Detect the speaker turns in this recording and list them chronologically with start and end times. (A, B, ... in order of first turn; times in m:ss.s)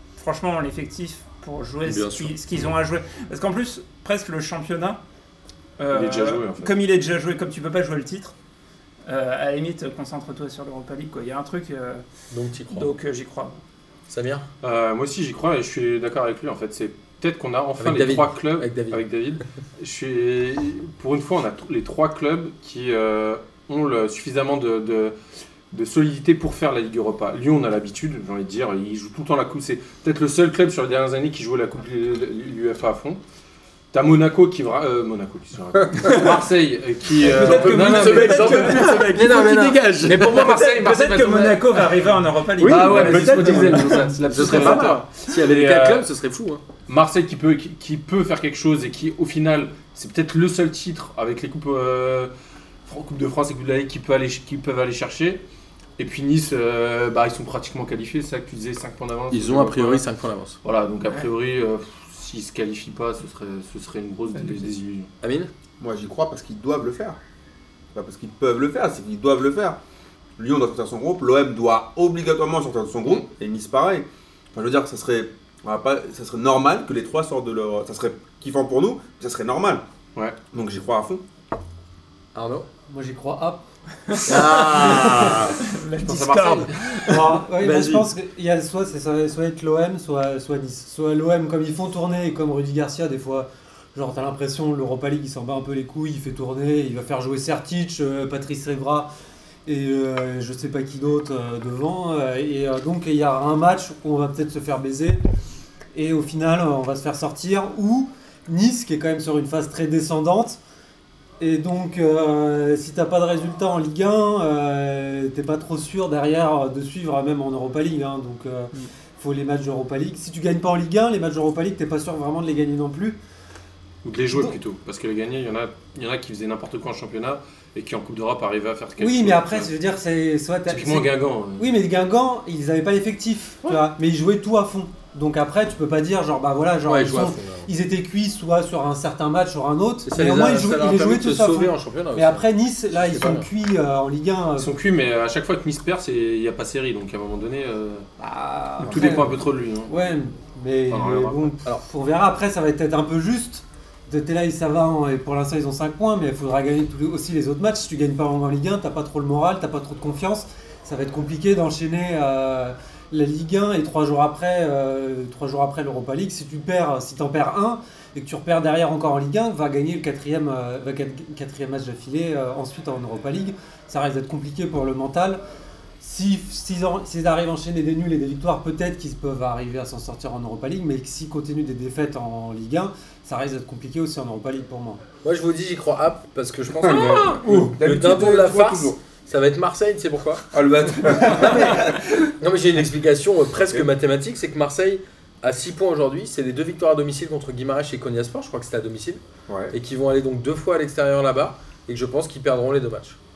0:00.2-0:05.0 A
0:01.8-0:02.7 B
0:05.8-0:08.3 A
0:05.9-0:06.7 C
0:09.1-0:12.0 A
0:12.3-0:12.9 B
0:12.7-0:13.6 A
0:14.1-0:14.5 B
0:14.6-0:25.1 C
0:17.8-0:19.0 B
0:25.7-0:33.2 C
0:33.9-0:41.9 C
0:36.0-0:36.4 A
0:37.2-0:39.2 A
0:37.2-0:40.4 B
0:40.2-0:44.1 A
0:42.6-0:46.6 B
0:42.6-0:46.1 C
0:43.7-0:45.0 D
0:46.9-0:52.3 C
0:52.9-0:55.4 C
0:56.0-1:00.0 C
0:59.3-1:00.6 B
1:00.6-1:05.1 C
1:04.4-1:04.6 A
1:05.2-1:05.5 B
1:05.8-1:07.2 E
1:07.9-1:09.8 E
1:10.4-1:19.8 E
1:20.5-1:21.2 E
1:22.4-1:22.7 B
1:22.9-1:23.6 D
1:24.1-1:27.4 A
1:24.2-1:25.6 B
1:24.6-1:25.4 D
1:27.0-1:39.1 D
1:27.6-1:28.1 B
1:39.6-1:45.2 D
1:45.9-1:50.6 D
1:51.4-2:03.2 D
2:04.0-2:09.7 C
2:09.0-2:24.7 D
2:10.7-2:11.7 C
2:16.9-2:17.7 B
2:20.1-2:22.5 B
2:23.0-2:23.5 B
2:24.6-2:28.1 C
2:28.2-2:55.4 D
2:28.8-2:29.9 C
2:30.9-2:31.6 C
2:56.0-3:05.0 D
3:05.2-3:10.5 B
3:06.8-3:09.0 E
3:06.9-3:07.6 C
3:10.5-3:12.1 E
3:11.2-3:23.2 B
3:19.5-3:19.7 E